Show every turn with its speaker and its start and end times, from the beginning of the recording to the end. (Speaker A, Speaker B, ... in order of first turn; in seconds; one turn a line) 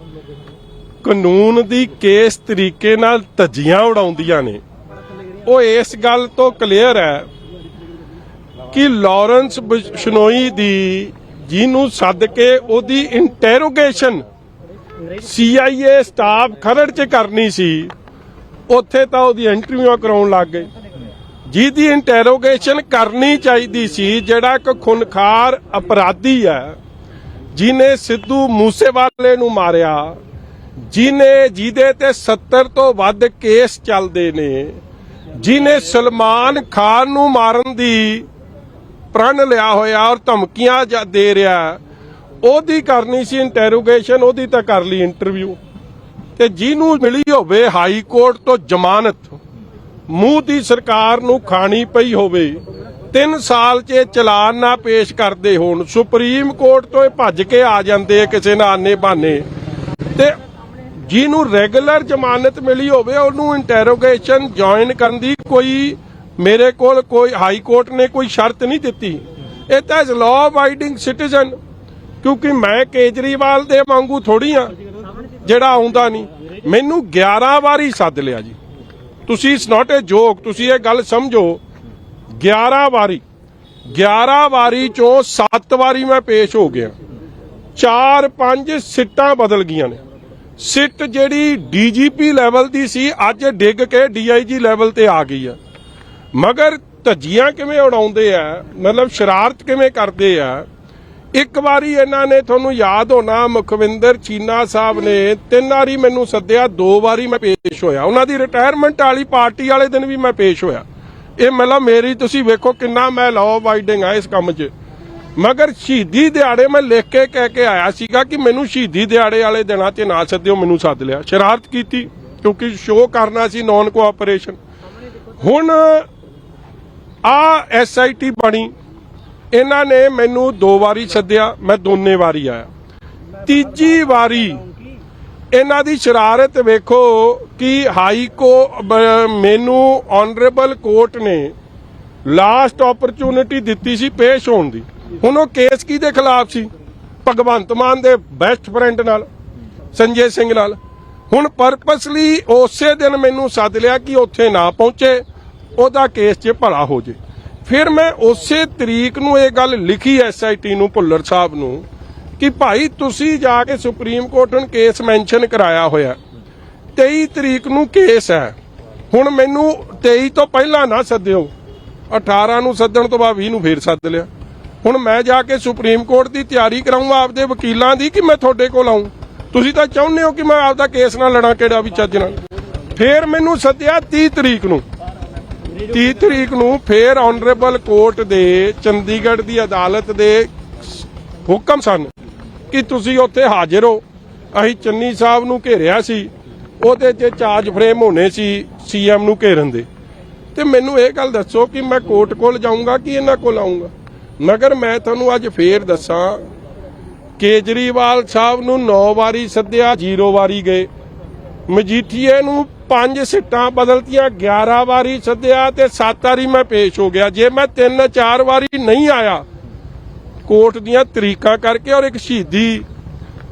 Speaker A: 1.0-4.6
Speaker A: 5.5-7.3
Speaker A: 8.7-14.2
Speaker A: 15.2-17.9
Speaker A: 18.7-20.7
Speaker A: 21.5-26.8
Speaker A: 27.5-30.2
Speaker A: 30.9-34.8
Speaker A: 35.4-38.3
Speaker A: 39.1-41.8
Speaker A: 42.4-45.6
Speaker A: 46.4-49.4
Speaker A: 50.1-52.6
Speaker A: 53.1-59.5
Speaker A: 60.1-60.4
Speaker A: 61.0-71.6
Speaker A: 72.2-74.8
Speaker A: 75.4-78.6
Speaker A: 79.3-81.6
Speaker A: 82.3-83.2
Speaker A: 83.9-86.9
Speaker A: 87.8-90.0
Speaker A: 90.6-95.6
Speaker A: 96.3-100.7
Speaker A: 101.3-110.8
Speaker A: 111.4-114.7
Speaker A: 115.4-124.6
Speaker A: 125.3-126.1
Speaker A: 127.2-128.7
Speaker A: 129.5-132.7
Speaker A: 133.4-134.7
Speaker A: 135.5-141.5
Speaker A: 142.2-146.7
Speaker A: 147.2-149.3
Speaker A: 149.9-150.8
Speaker A: 151.3-155.2
Speaker A: 155.8-161.8
Speaker A: 162.4-166.2
Speaker A: 166.9-168.5
Speaker A: 169.1-171.5
Speaker A: 172.1-174.3
Speaker A: 174.8-182.3
Speaker A: 182.9-184.8
Speaker A: 185.8-192.1
Speaker A: 192.7-199.8
Speaker A: 200.5-206.4
Speaker A: 207.4-210.9
Speaker A: 211.7-219.4
Speaker A: 220.4-222.8